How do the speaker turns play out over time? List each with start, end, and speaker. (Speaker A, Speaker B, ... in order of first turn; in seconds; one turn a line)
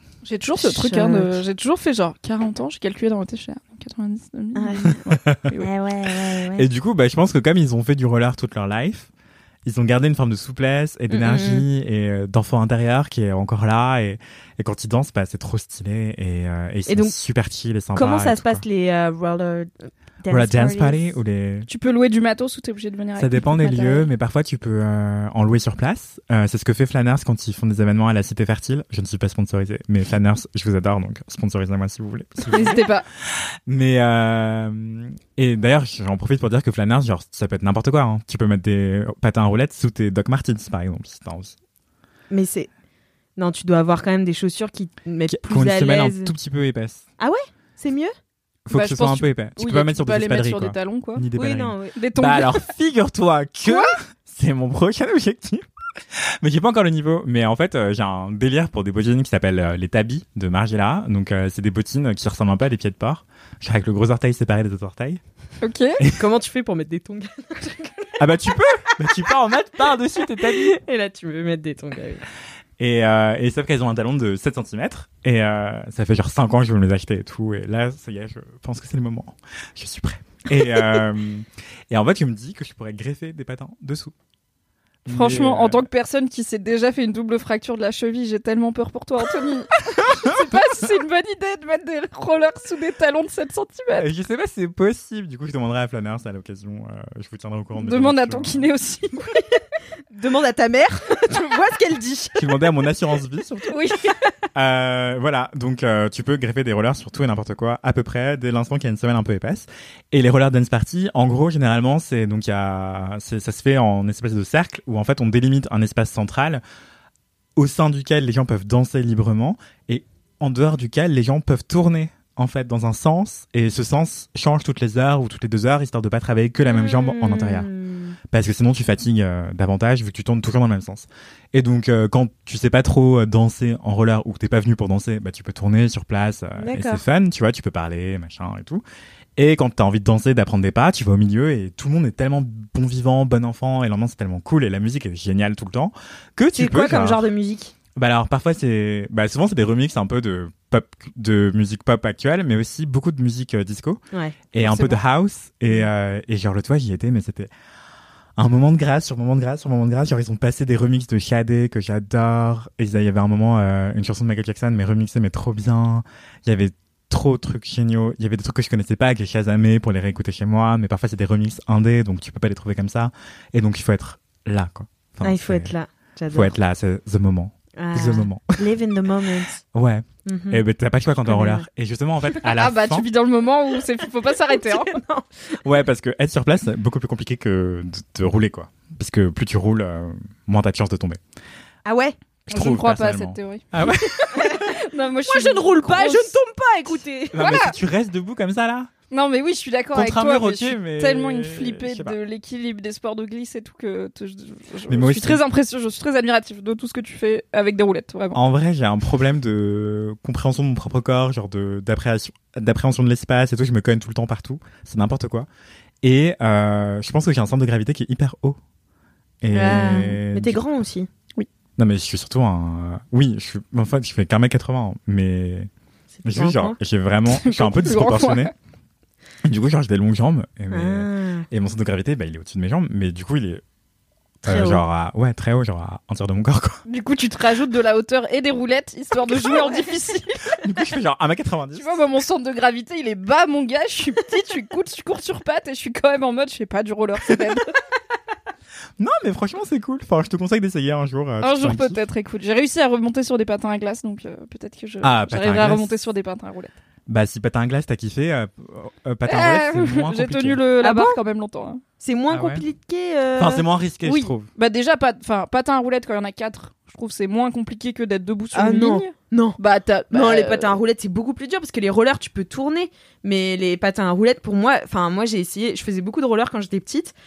Speaker A: 0.2-5.7
Speaker B: 0.6-1.3
Speaker B: 4.5-5.0
Speaker C: 5.1-5.4
Speaker B: 5.6-6.6
Speaker C: 6.5-9.1
Speaker C: 9.6-18.6
Speaker B: 11.1-11.7
Speaker B: 16.9-17.1
Speaker B: 17.9-21.1
Speaker C: 20.3-21.7
Speaker A: 21.7-23.9
Speaker C: 23.2-32.8
Speaker A: 32.5-33.0
Speaker C: 33.7-41.5
Speaker B: 42.3-42.7
Speaker B: 43.4-46.3
Speaker C: 45.3-47.0
Speaker B: 47.2-48.1
Speaker C: 48.6-55.6
Speaker A: 48.7-51.2
Speaker B: 51.3-52.0
Speaker A: 52.0-52.6
Speaker A: 53.6-54.0
Speaker C: 56.1-65.2
Speaker A: 65.6-66.0
Speaker B: 66.2-68.1
Speaker C: 68.2-70.8
Speaker B: 70.4-72.2
Speaker C: 72.8-84.1
Speaker C: 85.0-85.9
Speaker A: 85.1-94.1
Speaker C: 93.9-98.7
Speaker A: 97.8-99.5
Speaker B: 100.1-102.6
Speaker C: 102.3-103.8
Speaker A: 103.7-104.1
Speaker C: 104.5-116.6
Speaker C: 117.5-127.7
Speaker B: 126.7-128.2
Speaker C: 128.3-138.8
Speaker B: 136.6-137.0
Speaker C: 139.4-147.3
Speaker B: 146.5-147.7
Speaker C: 147.9-154.0
Speaker B: 154.1-155.0
Speaker C: 154.5-157.5
Speaker C: 158.4-175.7
Speaker B: 175.2-176.5
Speaker C: 176.3-178.6
Speaker B: 177.8-179.6
Speaker C: 179.7-183.1
Speaker B: 180.2-180.6
Speaker B: 181.2-181.6
Speaker A: 182.5-185.0
Speaker B: 184.5-185.6
Speaker C: 185.6-191.2
Speaker B: 191.8-192.2
Speaker C: 192.5-194.7
Speaker A: 192.5-196.3
Speaker B: 194.3-194.7
Speaker B: 195.3-197.6
Speaker C: 197.3-198.9
Speaker A: 197.4-197.7
Speaker A: 199.1-208.4
Speaker C: 199.9-202.2
Speaker C: 204.9-205.4
Speaker C: 208.3-215.5
Speaker C: 216.0-218.6
Speaker C: 219.4-220.6
Speaker B: 219.5-221.1
Speaker C: 221.8-225.7
Speaker B: 226.1-226.8
Speaker C: 226.2-228.5
Speaker A: 227.3-228.5
Speaker C: 229.4-233.6
Speaker B: 230.7-231.4
Speaker C: 234.4-236.8
Speaker B: 234.4-234.8
Speaker A: 236.9-240.4
Speaker B: 239.4-239.8
Speaker C: 240.6-242.0
Speaker A: 241.8-247.7
Speaker C: 249.0-252.0
Speaker A: 251.4-256.7
Speaker C: 255.0-255.9
Speaker C: 257.1-260.6
Speaker A: 259.3-261.8
Speaker B: 260.8-261.2
Speaker B: 262.0-264.3
Speaker C: 262.3-262.6
Speaker C: 263.4-264.5
Speaker A: 264.6-270.8
Speaker B: 268.5-269.6
Speaker B: 270.1-277.1